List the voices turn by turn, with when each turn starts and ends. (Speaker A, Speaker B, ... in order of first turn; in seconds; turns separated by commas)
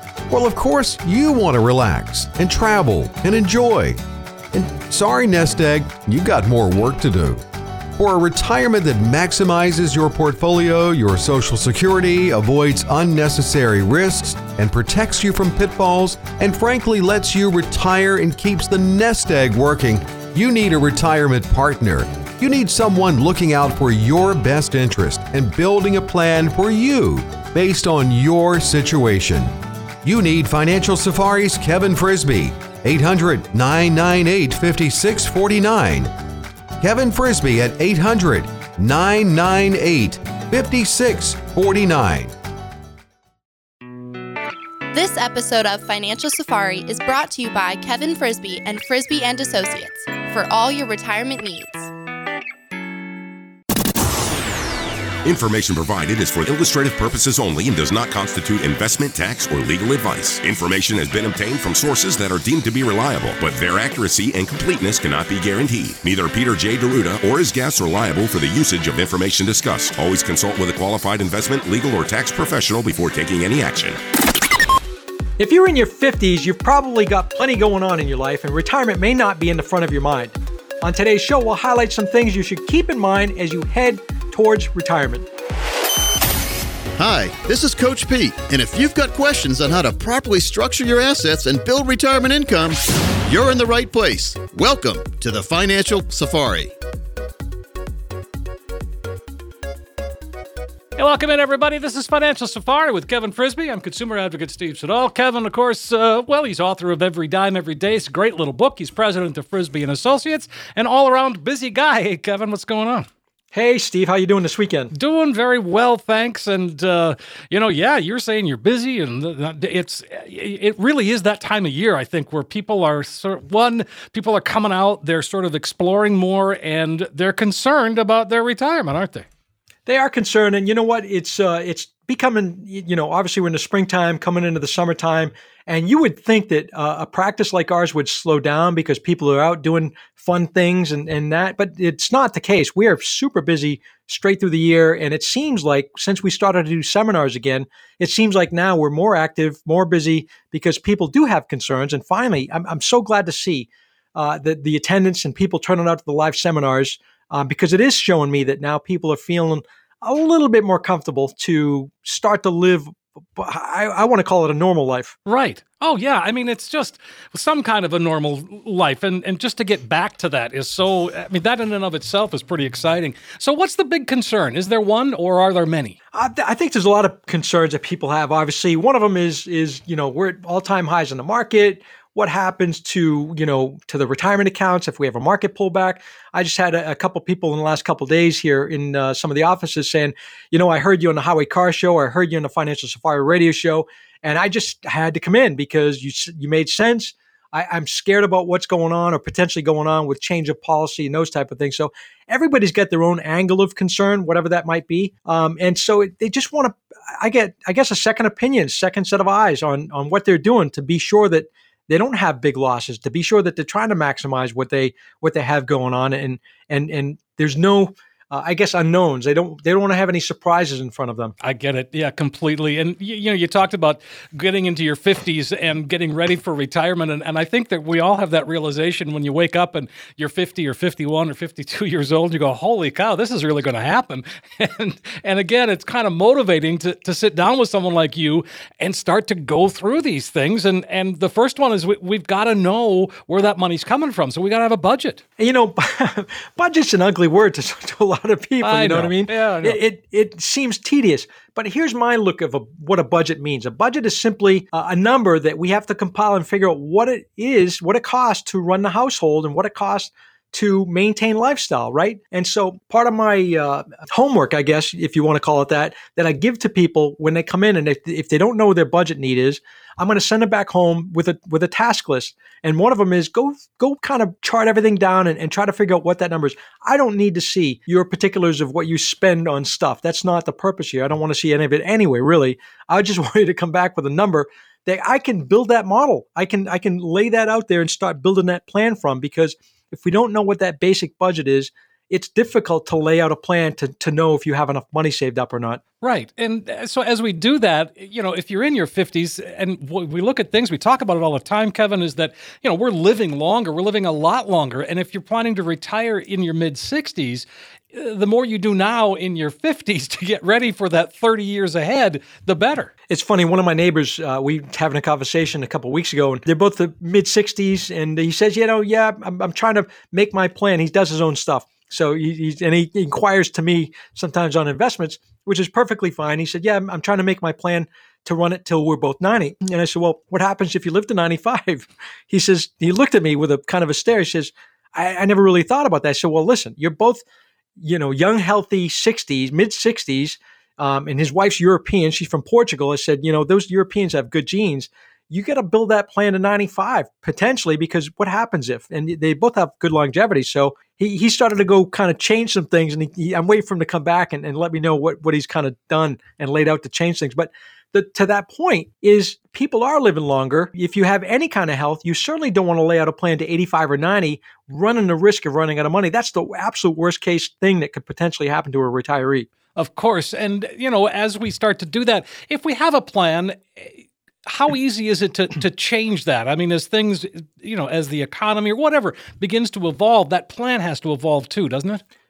Speaker A: 0.3-4.0, Speaker A: 4.5-7.4, Speaker A: 8.0-29.5, Speaker A: 30.0-36.1, Speaker A: 36.8-42.3, Speaker B: 44.9-51.9, Speaker C: 55.2-74.0, Speaker D: 75.4-85.3, Speaker E: 87.0-96.7, Speaker F: 101.0-113.1, Speaker D: 113.5-114.9, Speaker F: 114.9-129.3, Speaker D: 129.9-165.2, Speaker F: 165.3-176.0, Speaker D: 176.1-221.3, Speaker F: 221.4-245.2, Speaker D: 245.4-295.8, Speaker F: 248.6-249.8, Speaker F: 296.0-312.9, Speaker D: 313.1-337.2, Speaker D: 337.8-369.5, Speaker F: 369.8-382.0